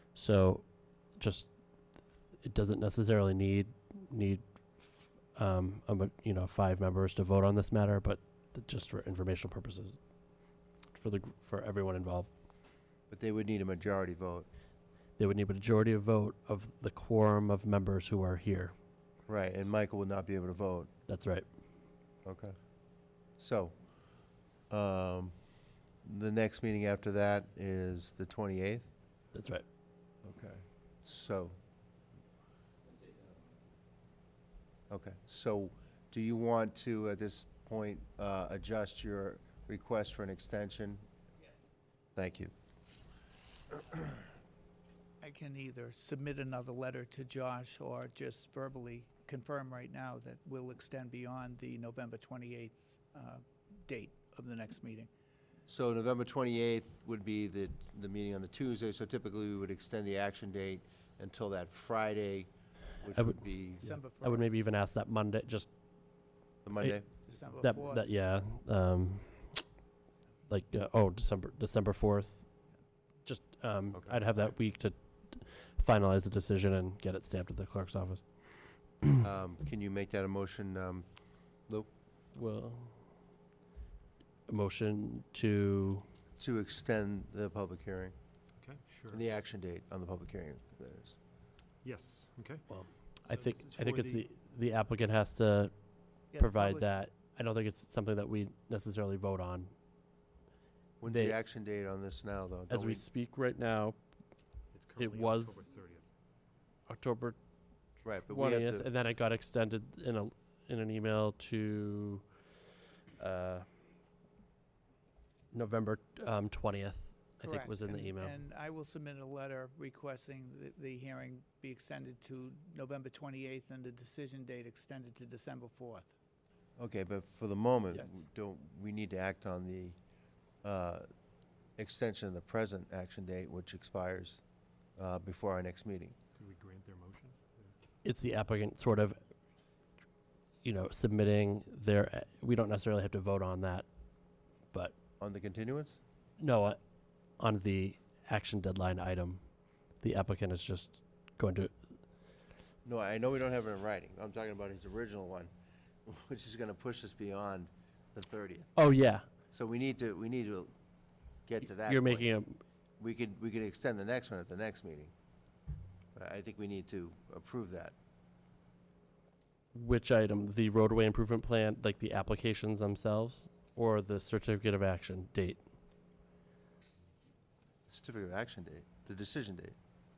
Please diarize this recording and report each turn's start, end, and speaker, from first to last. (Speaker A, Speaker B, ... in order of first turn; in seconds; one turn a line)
Speaker A: 0.1-0.7
Speaker A: 1.2-1.5
Speaker A: 2.4-10.0
Speaker A: 10.9-12.3
Speaker B: 13.1-14.5
Speaker A: 15.2-18.7
Speaker B: 19.3-20.9
Speaker A: 21.1-21.5
Speaker B: 22.2-22.6
Speaker B: 23.4-23.7
Speaker B: 24.7-25.3
Speaker B: 26.1-28.9
Speaker A: 29.3-29.6
Speaker B: 30.2-31.6
Speaker B: 34.9-41.0
Speaker B: 42.1-42.5
Speaker C: 45.2-55.1
Speaker B: 55.7-62.5
Speaker B: 63.0-64.0
Speaker A: 63.2-65.7
Speaker C: 63.8-64.6
Speaker B: 66.6-67.1
Speaker C: 67.3-68.1
Speaker A: 67.6-69.6
Speaker A: 70.5-72.5
Speaker A: 73.2-78.4
Speaker B: 79.2-81.1
Speaker A: 82.3-83.0
Speaker A: 84.5-86.0
Speaker B: 86.4-88.2
Speaker D: 88.6-89.2
Speaker B: 89.1-91.2
Speaker D: 91.8-92.7
Speaker A: 92.7-95.7
Speaker D: 93.3-94.3
Speaker C: 96.3-96.9
Speaker A: 96.3-99.7
Speaker B: 101.0-103.0
Speaker A: 101.0-101.3
Speaker A: 102.7-104.0
Speaker D: 104.7-106.0
Speaker A: 105.0-105.6
Speaker A: 106.9-107.4
Speaker B: 108.0-108.9
Speaker A: 108.3-112.2
Speaker A: 113.2-113.7
Speaker A: 115.5-118.4
Speaker C: 117.4-126.1
Speaker B: 126.8-130.0
Speaker B: 130.6-131.1
Speaker B: 131.8-134.4
Speaker B: 135.0-136.2
Speaker D: 136.4-137.7
Speaker A: 138.0-139.2
Speaker A: 140.6-143.9
Speaker B: 145.2-146.0
Speaker A: 146.4-146.8
Speaker A: 147.4-149.4
Speaker A: 150.0-151.7
Speaker B: 152.8-155.5
Speaker B: 156.1-158.8
Speaker A: 158.8-159.2
Speaker B: 159.5-160.7
Speaker B: 161.5-162.4
Speaker A: 161.8-162.6
Speaker B: 163.0-165.1
Speaker B: 166.2-167.9
Speaker A: 169.7-175.6
Speaker B: 177.9-179.8